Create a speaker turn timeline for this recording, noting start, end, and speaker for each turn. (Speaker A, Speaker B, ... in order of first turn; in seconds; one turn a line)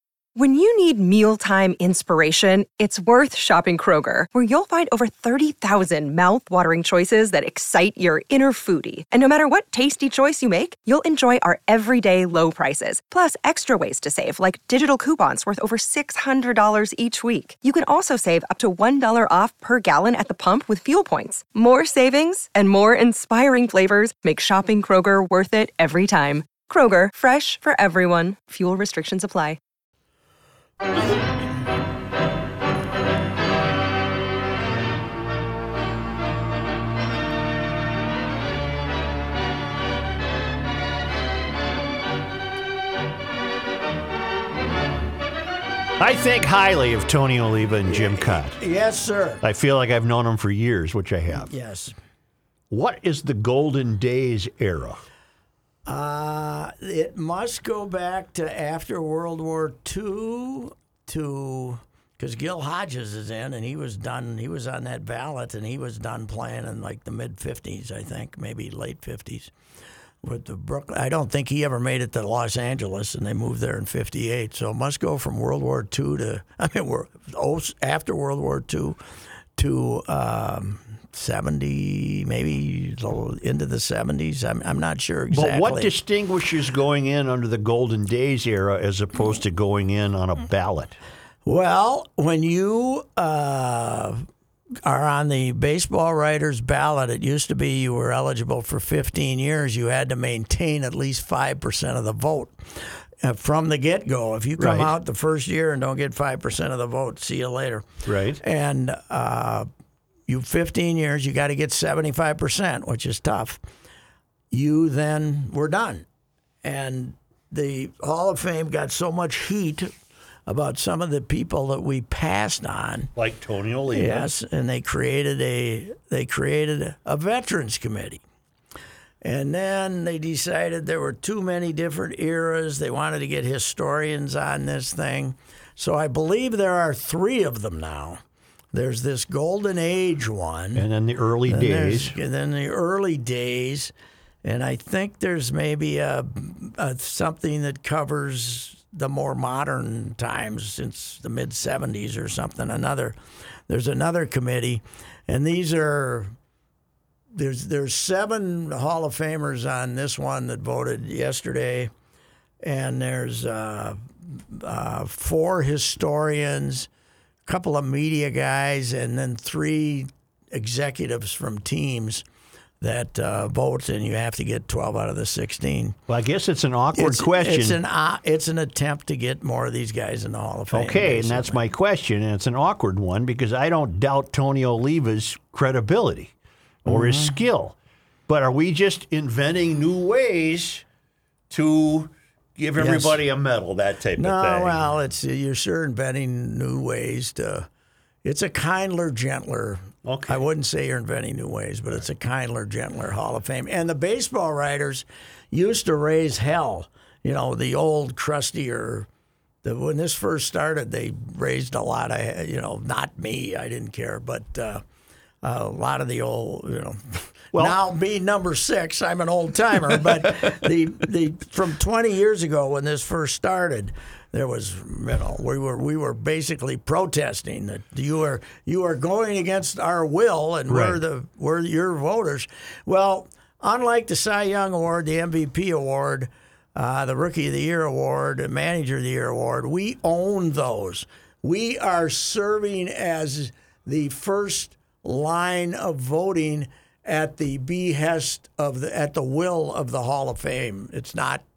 Speaker A: 0.4-29.6
Speaker B: 46.0-48.6
Speaker C: 47.9-49.4
Speaker B: 49.4-51.5
Speaker C: 51.3-52.0
Speaker B: 52.7-55.0
Speaker C: 55.9-69.5
Speaker C: 70.2-79.0
Speaker C: 79.6-85.9
Speaker B: 85.3-91.0
Speaker C: 91.5-94.3
Speaker C: 94.8-109.7
Speaker B: 104.6-104.9
Speaker B: 108.1-108.4
Speaker C: 110.3-113.6
Speaker C: 114.5-116.0
Speaker C: 116.6-119.9
Speaker C: 120.5-123.1
Speaker B: 123.2-124.3
Speaker C: 123.9-128.2
Speaker C: 129.2-138.2
Speaker C: 138.7-140.9
Speaker B: 140.8-142.2
Speaker C: 141.5-143.9
Speaker C: 144.4-153.2
Speaker C: 153.7-156.3
Speaker C: 157.3-161.9
Speaker C: 162.6-166.9
Speaker C: 167.5-172.2
Speaker C: 172.8-176.0
Speaker B: 176.1-177.8
Speaker C: 176.9-181.6
Speaker B: 180.7-186.3
Speaker C: 186.8-187.4
Speaker B: 186.9-187.8
Speaker B: 188.3-190.8
Speaker B: 191.5-194.9
Speaker C: 192.8-193.2
Speaker C: 194.2-197.7
Speaker C: 198.2-209.1
Speaker B: 200.1-200.4
Speaker C: 209.6-214.8
Speaker C: 215.4-251.4
Speaker B: 230.7-231.0